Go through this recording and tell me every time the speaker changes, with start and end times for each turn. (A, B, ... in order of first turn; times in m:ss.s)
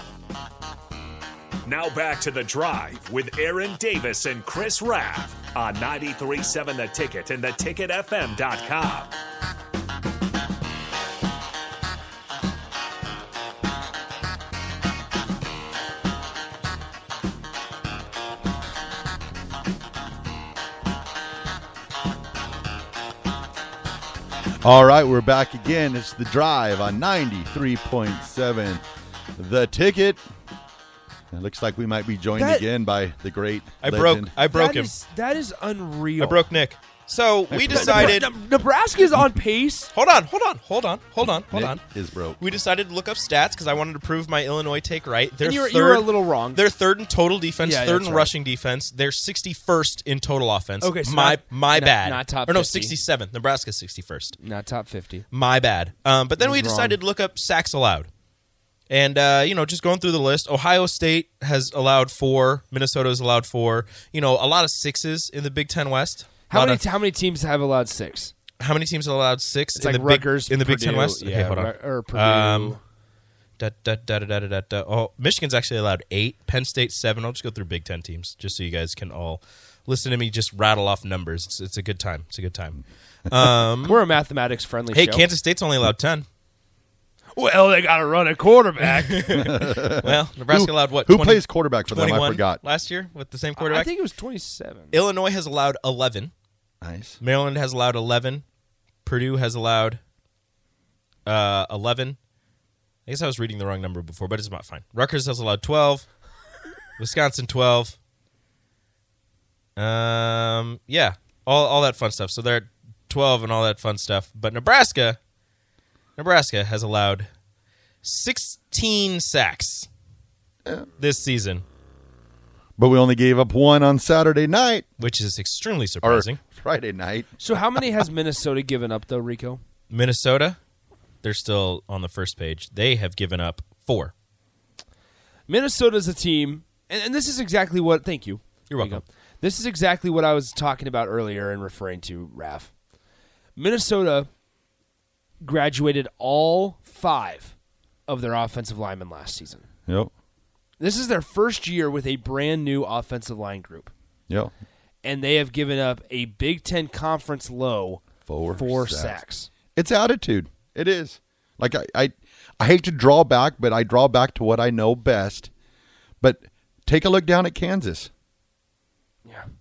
0:01.7-0:09.1 A
0:24.6-0:28.8 B
0:29.4-0:30.2 B
0:31.3-0:34.3 B
0:32.3-0:32.7 C
0:33.8-0:34.9 D
0:34.4-0:36.4 C
0:36.2-0:38.3 D
0:37.5-0:38.3 B
0:37.7-0:39.9 C
0:39.9-0:41.8 D
0:41.5-0:42.4 B
0:42.4-0:54.4 D
0:45.4-0:46.6 C
0:47.6-0:48.3 C
0:50.8-0:53.0 C
0:54.4-0:55.3 C
0:55.3-0:58.1 D
0:56.4-0:57.0 C
0:58.9-1:06.8 D
1:06.5-1:08.3 C
1:08.6-1:12.8 D
1:09.8-1:12.8 C
1:13.6-1:24.0 D
1:23.8-1:25.3 C
1:24.9-1:26.3 D
1:27.3-1:29.6 C
1:29.1-1:33.9 D
1:29.4-1:32.6 B
1:33.6-1:35.0 C
1:34.9-1:36.3 D
1:36.8-1:37.2 B
1:37.2-1:38.4 D
1:39.0-1:40.0 D
1:41.3-1:42.2 D
1:43.1-1:46.1 D
1:47.0-1:48.0 D
1:49.8-1:55.2 D
1:56.2-1:57.3 D
1:58.0-1:59.9 D
2:01.0-2:01.6 D
2:02.8-2:04.9 B
2:05.0-2:06.4 D
2:06.0-2:07.3 B
2:07.4-2:09.6 C
2:09.9-2:10.6 D
2:11.2-2:14.1 D
2:15.5-2:22.7 C
2:18.7-2:19.0 D
2:23.6-2:24.3 C
2:25.4-2:27.5 C
2:28.1-2:29.7 C
2:30.8-2:33.9 C
2:35.0-2:39.5 C
2:38.3-2:39.2 B
2:39.8-2:45.5 B
2:46.2-2:48.1 B